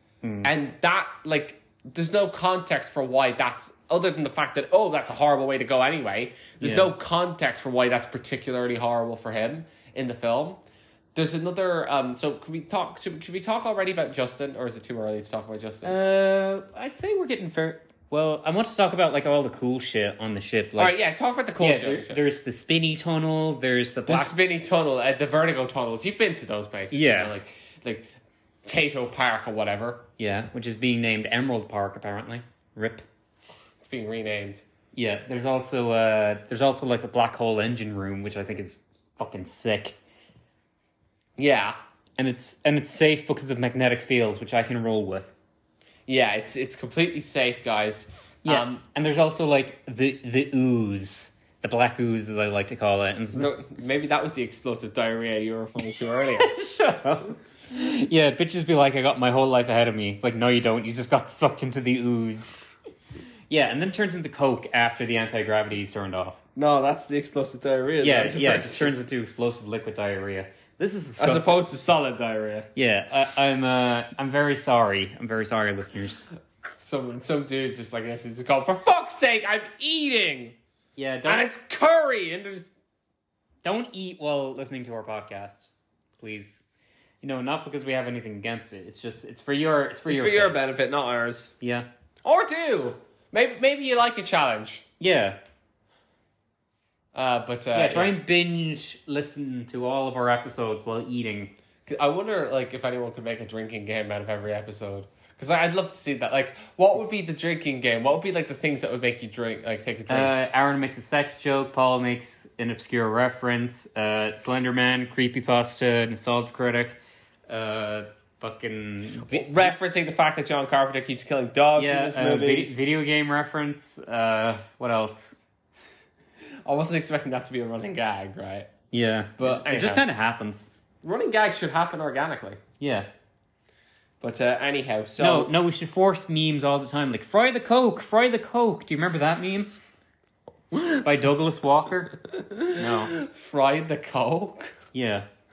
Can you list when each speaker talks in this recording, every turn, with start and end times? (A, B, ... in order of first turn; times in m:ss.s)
0:00.2-0:00.5 A
0:00.4-0:10.6 B
0:06.6-0:06.9 A
0:11.1-0:16.0 B
0:15.8-0:20.9 A
0:20.8-0:22.2 B
0:21.6-0:24.4 A
0:24.1-0:28.1 B
0:26.9-0:27.3 A
0:28.6-0:30.0 B
0:30.2-0:33.0 A
0:33.8-0:34.6 B
0:34.9-0:40.0 A
0:41.4-0:41.8 B
0:42.2-0:45.3 A
0:46.1-0:48.8 B
0:48.4-0:53.5 A
0:53.3-0:56.5 B
0:56.4-1:02.6 A
1:03.5-1:06.4 A
1:06.6-1:08.9 B
1:08.0-1:11.6 A
1:11.2-1:12.7 B
1:12.8-1:16.2 A
1:16.8-1:20.5 B
1:21.0-1:21.5 A
1:21.2-1:22.7 B
1:23.6-1:25.7 A
1:26.2-1:26.6 A
1:27.2-1:30.6 A
1:30.1-1:31.5 B
1:31.6-1:31.9 A
1:32.2-1:34.8 B
1:35.0-1:35.4 A
1:37.1-1:38.1 B
1:37.7-1:41.5 A
1:41.9-1:50.3 B
1:50.1-1:59.7 A
1:59.2-2:02.7 B
2:01.8-2:05.4 A
2:06.6-2:08.7 B
2:08.9-2:10.7 A
2:09.4-2:10.0 B
2:11.0-2:12.6 B
2:12.8-2:13.1 A
2:14.2-2:15.5 B
2:15.2-2:19.7 A
2:20.7-2:21.0 B
2:21.0-2:22.1 A
2:22.5-2:24.8 B
2:22.7-2:23.1 A
2:24.9-2:25.3 A